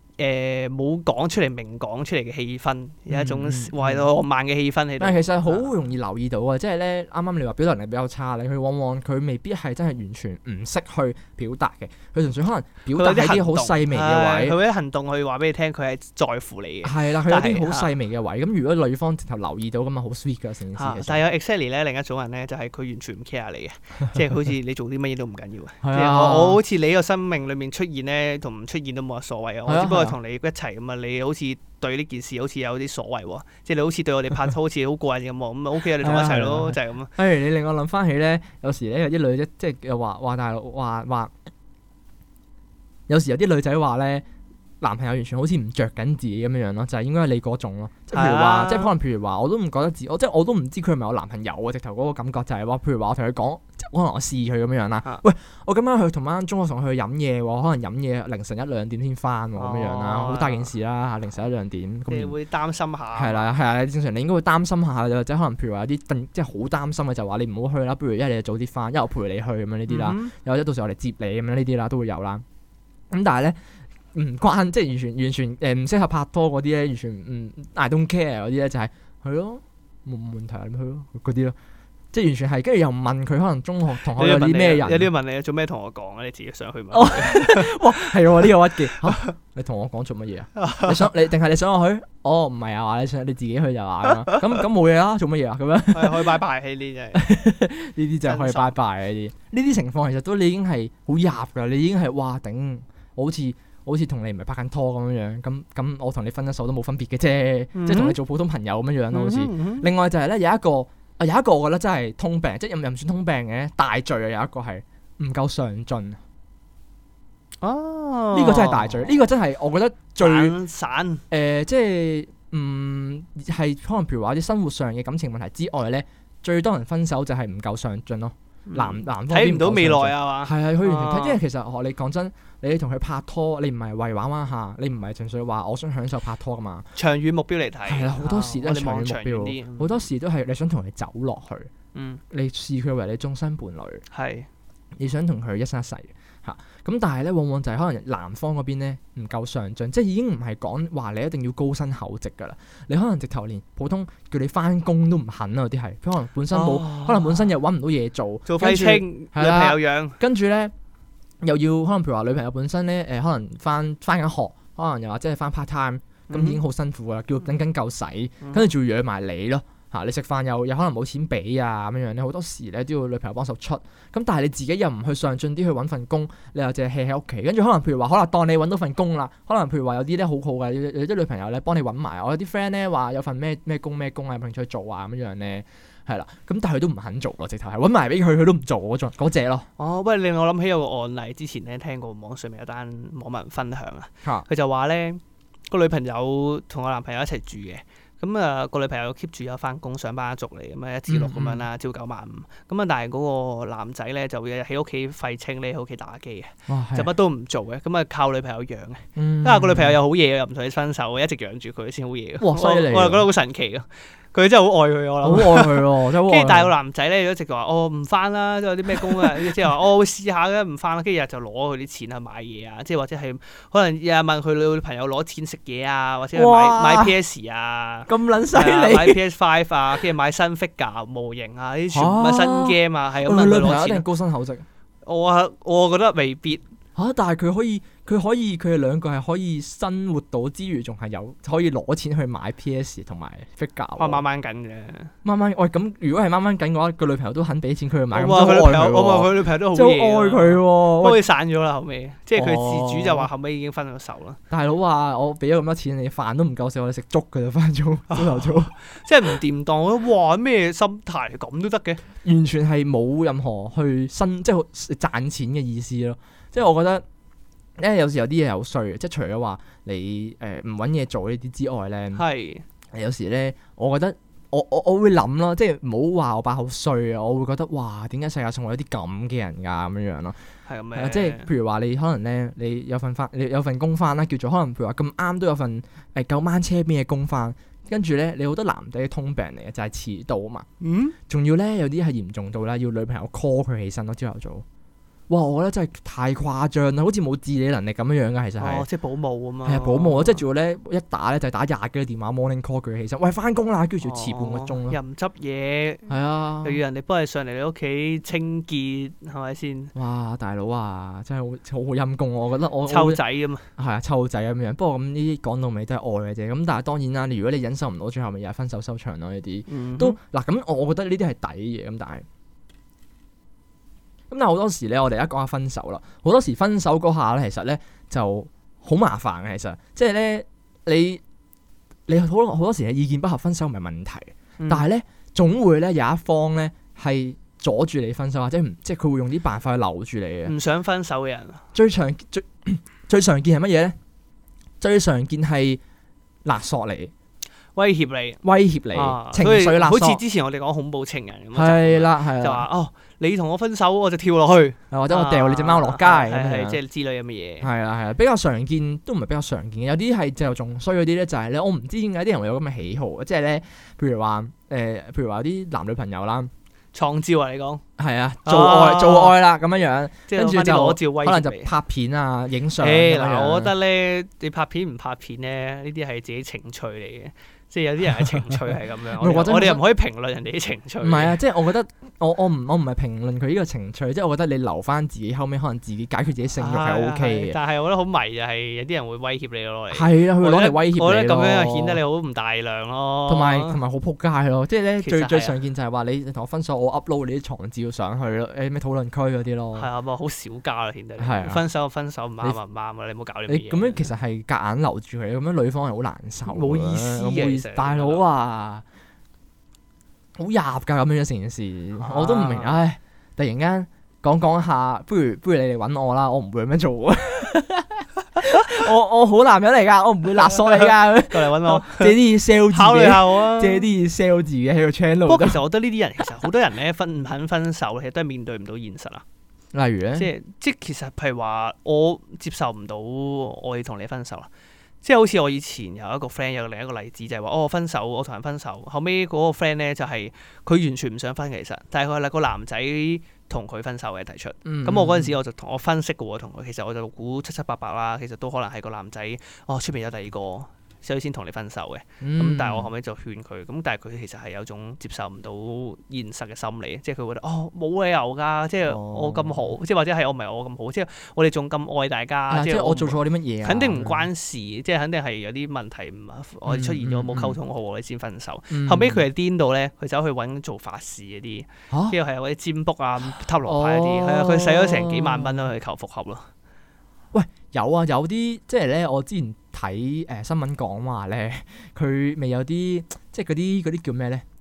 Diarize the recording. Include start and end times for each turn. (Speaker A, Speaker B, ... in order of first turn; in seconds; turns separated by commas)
Speaker A: 0.2-5.7, Speaker B: 3.1-4.1, Speaker B: 5.0-14.6, Speaker A: 12.9-17.9, Speaker B: 16.8-21.2, Speaker A: 20.8-37.1, Speaker B: 25.8-26.6, Speaker B: 29.7-30.2, Speaker B: 36.0-41.3, Speaker B: 43.1-44.2, Speaker B: 44.8-62.3, Speaker A: 48.1-48.9, Speaker A: 59.6-60.7, Speaker A: 62.1-63.5, Speaker B: 63.1-72.4, Speaker A: 69.9-70.3, Speaker B: 73.1-73.6, Speaker B: 74.1-81.6, Speaker B: 82.1-85.1, Speaker A: 84.2-89.3, Speaker B: 86.9-96.4, Speaker A: 90.6-91.1, Speaker A: 95.9-97.2, Speaker B: 97.2-116.2, Speaker A: 98.2-98.8, Speaker A: 107.8-108.2, Speaker A: 109.1-109.9, Speaker A: 117.6-119.1, Speaker B: 118.3-120.6, Speaker A: 120.2-121.2, Speaker B: 121.3-136.9, Speaker A: 128.7-131.4, Speaker A: 137.0-140.0, Speaker B: 137.9-141.7, Speaker A: 141.9-142.2, Speaker B: 142.3-144.0, Speaker A: 144.1-144.5, Speaker B: 145.0-160.7, Speaker A: 156.5-157.5, Speaker A: 158.5-160.2, Speaker B: 161.4-189.7, Speaker A: 166.3-166.6, Speaker A: 168.4-168.7, Speaker A: 189.8-234.1, Speaker B: 201.1-201.7, Speaker B: 206.7-207.1, Speaker B: 209.2-210.0, Speaker B: 212.4-213.3, Speaker B: 215.2-216.7, Speaker B: 219.0-219.5, Speaker B: 226.3-227.2, Speaker B: 228.1-229.2, Speaker B: 231.9-234.7, Speaker A: 235.1-236.6, Speaker B: 237.0-244.2, Speaker A: 244.0-245.1, Speaker B: 245.2-251.2, Speaker A: 248.1-254.4, Speaker B: 252.3-253.3, Speaker B: 254.5-258.7, Speaker A: 258.1-262.0, Speaker B: 262.2-267.0, Speaker B: 267.8-272.2, Speaker A: 272.1-272.6, Speaker B: 272.9-280.4, Speaker A: 280.7-281.5, Speaker B: 280.9-290.7, Speaker A: 290.8-291.2, Speaker B: 291.3-294.6, Speaker B: 295.3-298.9, Speaker A: 298.6-300.4, Speaker B: 299.6-305.0, Speaker A: 304.0-306.1, Speaker B: 306.1-306.8, Speaker A: 306.6-309.9, Speaker B: 309.9-313.2, Speaker A: 312.9-313.7, Speaker B: 313.8-322.2, Speaker A: 319.7-320.2, Speaker B: 324.3-331.2, Speaker B: 332.1-340.5, Speaker A: 334.6-334.9, Speaker A: 340.5-341.6, Speaker B: 341.7-344.0, Speaker B: 344.8-345.8, Speaker B: 346.4-347.1, Speaker A: 347.8-348.4, Speaker B: 348.4-350.2, Speaker A: 348.9-357.7, Speaker B: 351.5-352.7, Speaker B: 354.9-356.8, Speaker B: 357.6-366.5, Speaker A: 366.9-367.8, Speaker B: 368.0-373.7, Speaker A: 368.4-369.4, Speaker A: 370.3-371.7, Speaker A: 372.8-381.4, Speaker B: 379.2-379.8, Speaker B: 381.0-387.6, Speaker A: 386.6-393.8, Speaker B: 389.9-392.0, Speaker B: 393.3-399.9, Speaker A: 395.0-395.6, Speaker A: 399.8-404.1, Speaker B: 401.2-401.6, Speaker B: 403.5-408.8, Speaker A: 406.5-408.2, Speaker B: 410.4-425.6, Speaker A: 412.0-412.8, Speaker A: 420.4-423.9, Speaker A: 425.3-429.2, Speaker B: 429.7-430.3, Speaker A: 430.1-434.5, Speaker A: 435.0-476.5, Speaker B: 444.6-445.4, Speaker B: 452.2-452.9, Speaker B: 458.9-459.7, Speaker B: 462.5-464.3, Speaker B: 466.7-467.6, Speaker B: 468.7-469.3, Speaker B: 471.9-472.2, Speaker B: 473.6-475.7, Speaker B: 477.3-484.4